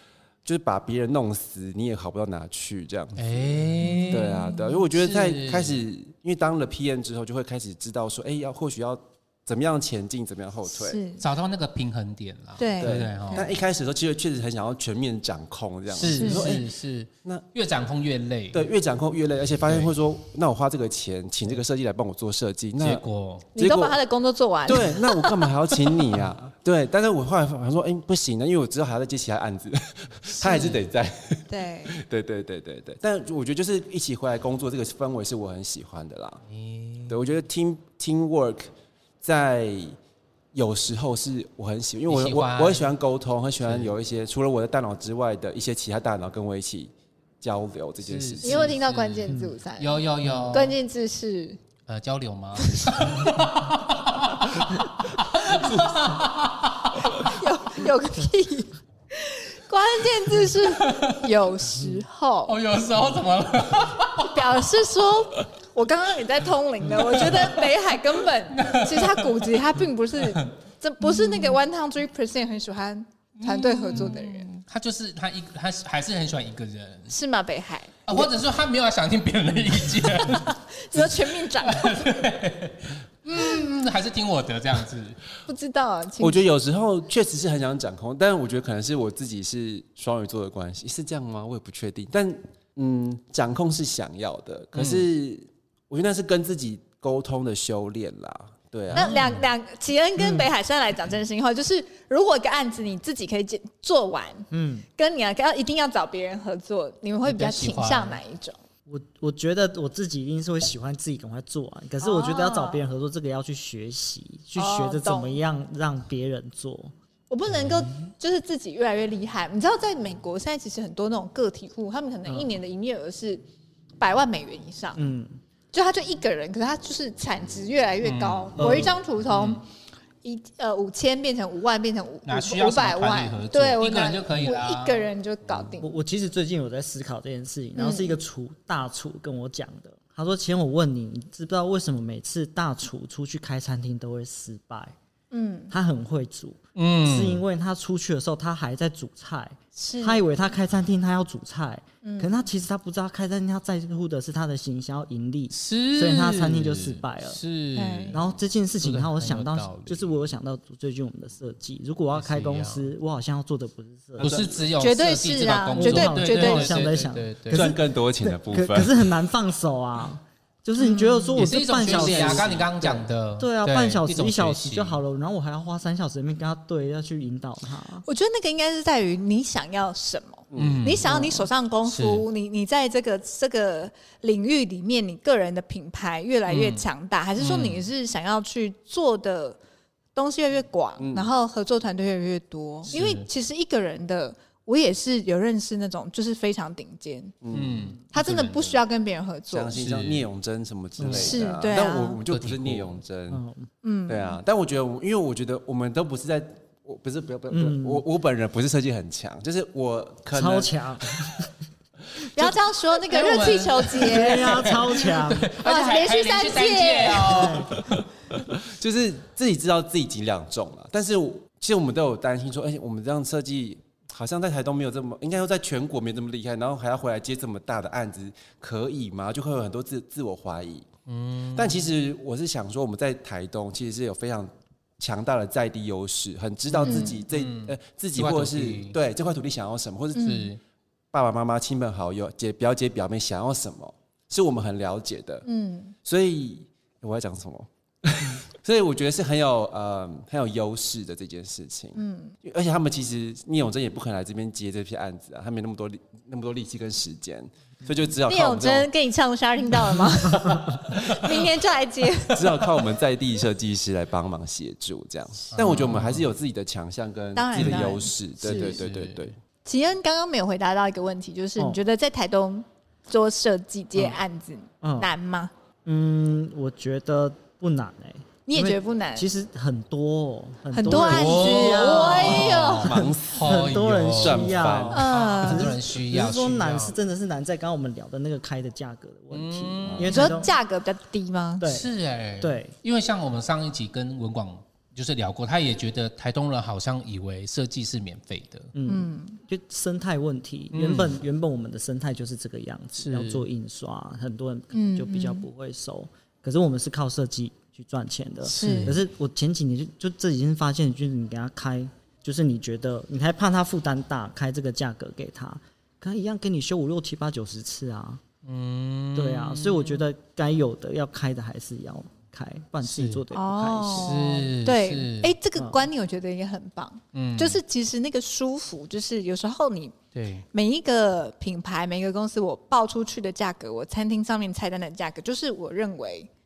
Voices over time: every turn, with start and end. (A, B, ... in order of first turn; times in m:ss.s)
0:00.4-0:11.0 A
0:03.2-0:05.8 B
0:03.8-0:04.8 C
0:10.7-0:11.2 C
0:11.2-0:13.5 B
0:12.6-0:13.6 C
0:12.8-0:16.6 A
0:15.9-0:18.7 B
0:16.0-0:16.5 C
0:18.5-0:23.0 A
0:22.8-0:23.5 B
0:23.6-0:25.5 C
0:23.6-0:24.0 A
0:24.6-0:36.4 A
0:30.4-0:30.9 B
0:31.5-0:32.0 C
0:36.5-0:37.2 B
0:37.1-0:40.0 A
0:40.5-0:48.8 A
0:42.1-0:42.9 B
0:43.6-0:44.0 B
0:48.0-0:50.8 B
0:48.4-0:51.6 C
0:49.3-0:49.5 D
0:51.9-0:57.2 B
0:52.7-0:53.3 C
0:57.0-1:02.6 C
1:00.4-1:01.3 B
1:02.5-1:04.6 B
1:04.2-1:14.5 C
1:06.9-1:07.7 B
1:08.5-1:10.5 B
1:11.0-1:11.6 B
1:13.4-1:17.1 B
1:17.1-1:18.3 C
1:18.1-1:25.2 B
1:20.2-1:22.0 C
1:25.4-1:26.4 C
1:26.2-1:39.2 A
1:34.7-1:35.0 B
1:38.9-1:39.4 B
1:38.9-1:48.6 C
1:40.2-1:40.5 D
1:44.5-1:44.9 D
1:47.2-1:48.2 B
1:48.9-1:56.9 D
1:52.0-1:52.8 C
1:54.6-1:55.4 C
1:57.3-2:03.4 C
1:57.6-1:57.9 B
2:04.0-2:05.0 C
2:05.0-2:05.4 D
2:05.7-2:09.6 C
2:08.0-2:09.6 B
2:08.6-2:09.0 D
2:10.2-2:15.9 C
2:12.3-2:15.1 B
2:15.8-2:24.9 D
2:17.8-2:18.2 C
2:25.3-2:25.7 C
2:25.7-2:37.4 D
2:26.8-2:27.4 B
2:29.8-2:30.2 C
2:32.0-2:32.3 C
2:35.5-2:38.2 B
2:37.7-2:38.2 C
2:38.1-2:44.3 D
2:38.8-2:40.1 B
2:42.1-2:42.9 B
2:44.2-2:44.6 A
2:44.2-2:47.7 B
2:44.8-2:46.9 C
2:45.7-2:52.6 D
2:47.5-2:49.1 A
2:50.8-2:51.4 C
2:51.3-2:55.0 B
2:51.8-2:53.0 A
2:53.4-2:58.0 D
2:58.0-3:09.6 C
3:00.5-3:01.0 A
3:00.6-3:01.1 B
3:01.0-3:01.5 D
3:01.8-3:02.3 B
3:06.5-3:06.9 B
3:07.4-3:07.9 B
3:10.1-3:17.3 C
3:11.0-3:11.3 A
3:12.9-3:13.3 B
3:17.4-3:17.9 A
3:17.5-3:18.8 B
3:18.1-3:19.8 C
3:19.5-3:23.4 A
3:19.7-3:20.3 B
3:21.0-3:21.3 D
3:21.0-3:21.4 B
3:21.1-3:22.2 C
3:22.3-3:23.0 B
3:23.3-3:23.7 D
3:23.8-3:24.4 C
3:24.1-3:31.4 A
3:27.5-3:28.0 D
3:30.3-3:31.5 D
3:32.3-3:34.8 C
3:33.1-3:37.8 B
3:34.0-3:35.5 D
3:35.6-3:37.6 C
3:37.2-3:37.8 D
3:38.5-3:50.9 A
3:51.1-3:51.9 B
3:51.6-4:00.3 A
3:56.7-3:59.0 B
3:56.8-3:57.2 C
4:00.1-4:00.5 C
4:00.2-4:00.6 B
4:01.1-4:05.4 A
4:05.4-4:06.0 C
4:06.0-4:18.9 A
4:12.0-4:12.4 C
4:18.3-4:22.4 C
4:22.3-4:29.4 A
4:25.5-4:26.3 B
4:27.3-4:28.8 C
4:27.6-4:28.0 D
4:28.4-4:29.3 B
4:29.6-4:35.5 C
4:34.8-4:35.1 D
4:35.8-4:50.5 D
4:38.4-4:39.3 C
4:40.7-4:43.0 C
4:40.9-4:47.0 B
4:41.3-4:41.5 A
4:42.1-4:45.0 A
4:44.9-4:45.7 C
4:49.3-4:50.4 B
4:49.9-4:50.1 A
4:50.1-4:51.7 C
4:51.6-4:52.7 D
4:51.6-4:58.7 B
4:58.7-5:18.2 D
4:58.9-4:59.4 C
5:00.7-5:01.2 B
5:03.0-5:03.4 B
5:04.7-5:05.5 C
5:08.4-5:09.0 B
5:08.5-5:09.0 C
5:18.4-5:20.0 B
5:19.1-5:24.5 D
5:22.8-5:23.2 B
5:23.3-5:30.0 C
5:23.8-5:25.3 B
5:25.6-5:25.9 D
5:27.1-5:27.6 B
5:30.1-5:30.4 B
5:30.5-5:36.3 C